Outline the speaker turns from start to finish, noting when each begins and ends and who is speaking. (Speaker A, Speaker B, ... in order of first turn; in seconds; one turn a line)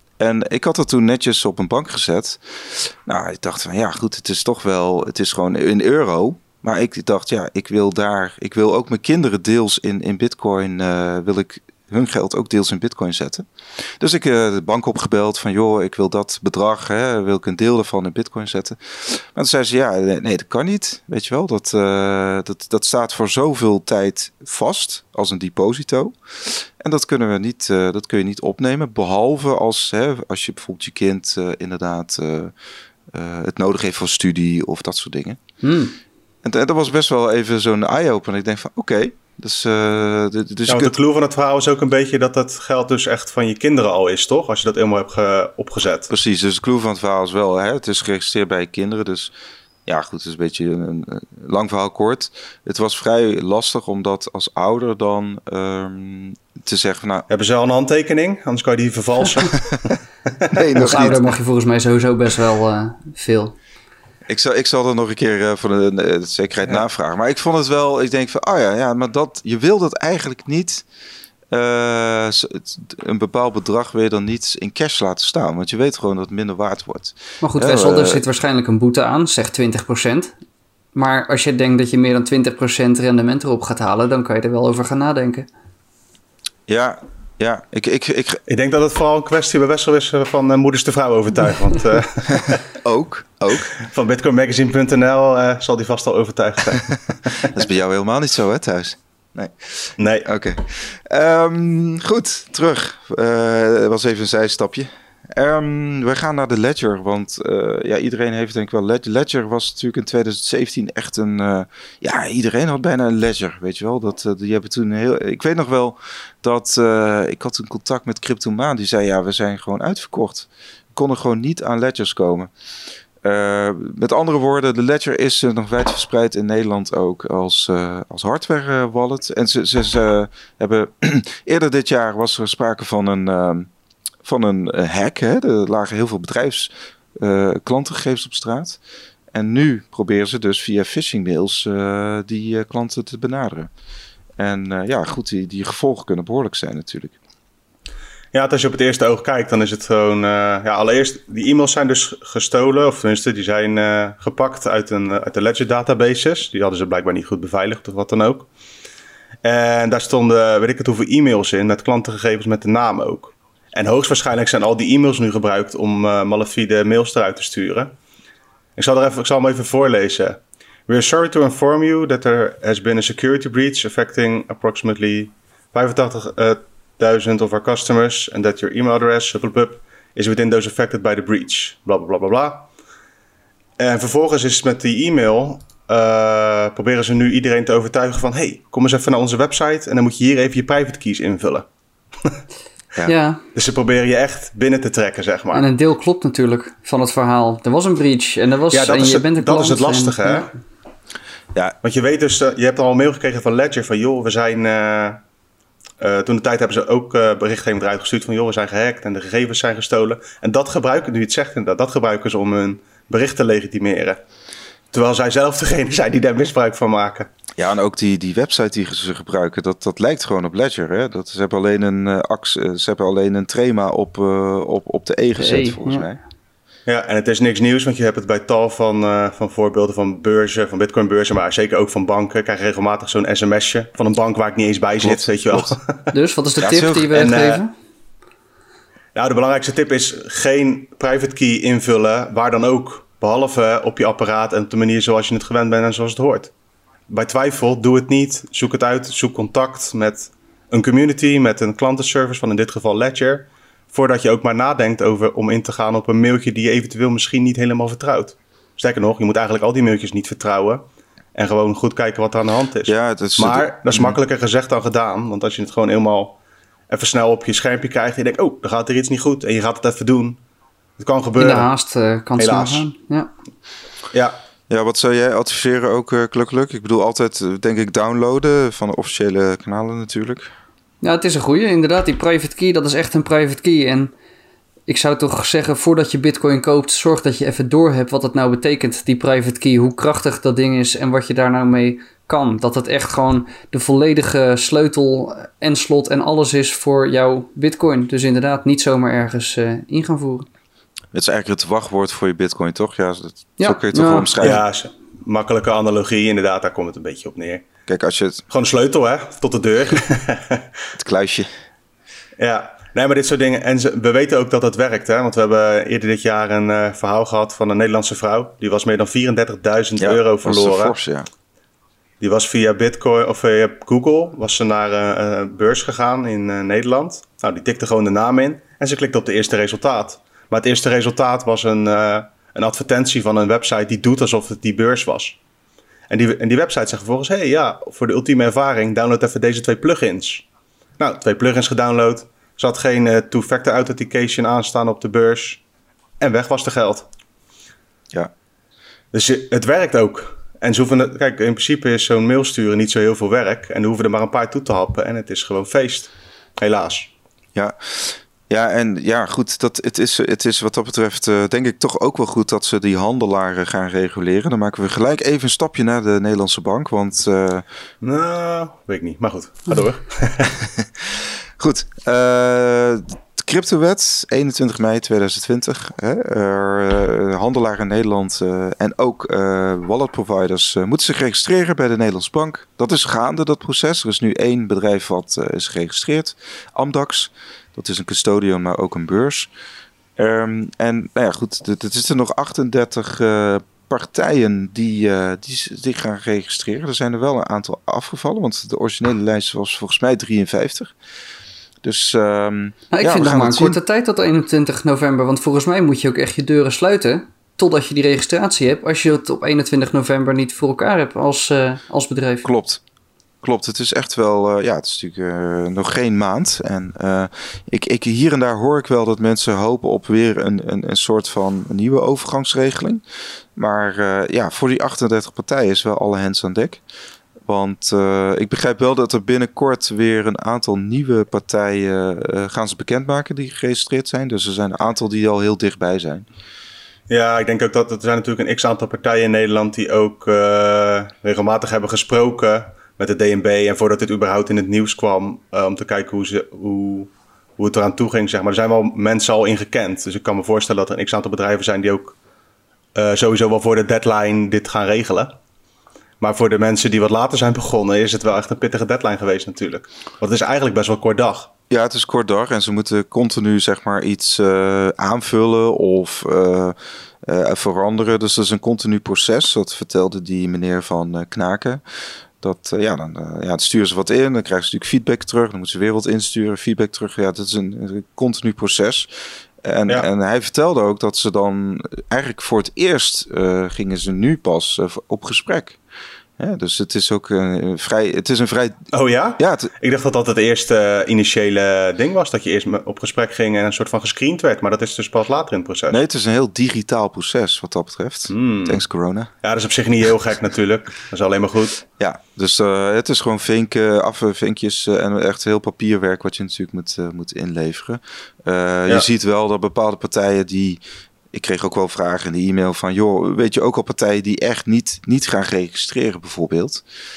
Speaker A: 0.2-32.5
Speaker A: 33.1-35.4
Speaker B: 35.6-36.0
Speaker A: 36.4-40.9
Speaker C: 40.7-46.1
Speaker A: 46.1-49.3
Speaker A: 49.9-57.3
Speaker C: 57.3-61.1
Speaker A: 60.5-61.2
Speaker B: 60.8-63.6
Speaker A: 64.3-70.9
Speaker A: 71.5-78.2
Speaker B: 77.4-80.3
Speaker B: 80.9-85.5
Speaker A: 86.7-88.4
Speaker C: 88.5-92.6
Speaker A: 92.2-93.7
Speaker C: 93.8-97.6
Speaker A: 97.4-122.5
Speaker C: 100.0-100.3
Speaker A: 123.2-133.7
Speaker A: 134.2-138.8
Speaker A: 139.3-143.7
Speaker A: 144.4-147.2
Speaker C: 148.3-158.5
Speaker C: 159.4-167.9
Speaker C: 168.8-182.7
Speaker C: 183.8-191.7
Speaker B: 193.1-193.4
Speaker C: 193.6-195.7
Speaker B: 195.5-200.5
Speaker C: 198.7-200.5
Speaker C: 201.8-205.2
Speaker C: 206.0-214.2
Speaker C: 214.9-217.3
Speaker A: 217.6-226.2
Speaker B: 225.4-226.1
Speaker C: 226.9-236.1
Speaker A: 235.0-235.8
Speaker B: 236.1-237.7
Speaker A: 236.6-237.1
Speaker C: 237.1-237.6
Speaker C: 239.2-246.5
Speaker C: 247.1-260.8
Speaker C: 261.4-266.4
Speaker A: 262.9-264.2
Speaker C: 266.9-270.4
Speaker C: 271.0-271.7
Speaker B: 271.4-273.3
Speaker C: 272.4-272.9
Speaker A: 274.7-280.5
Speaker B: 281.0-284.1
Speaker B: 284.9-300.5
Speaker A: 301.1-304.6
Speaker B: 303.6-304.5
Speaker C: 304.4-307.6
Speaker A: 307.9-308.4
Speaker C: 308.5-310.6
Speaker A: 311.0-311.5
Speaker C: 312.4-321.0
Speaker A: 320.0-321.3
Speaker C: 322.2-335.4
Speaker C: 336.1-340.4
Speaker C: 341.0-345.6
Speaker C: 346.2-347.1
Speaker C: 349.1-357.1
Speaker A: 357.6-367.6
Speaker C: 368.0-370.6
Speaker A: 370.6-389.5
Speaker A: 390.2-400.9
Speaker A: 401.8-403.8
Speaker B: 402.9-412.5
Speaker A: 412.4-412.8
Speaker A: 413.4-423.0
Speaker A: 423.6-426.8
Speaker A: 427.4-436.3
Speaker C: 437.1-452.2
Speaker C: 452.9-455.4
Speaker C: 456.2-461.5
Speaker A: 461.7-471.8
Speaker A: 472.4-485.8
Speaker A: 486.4-488.8
Speaker C: 488.9-496.0
Speaker A: 489.4-489.7
Speaker A: 495.9-499.3
Speaker C: 498.3-498.8
Speaker C: 499.4-501.8
Speaker A: 502.0-510.8
Speaker A: 511.3-516.8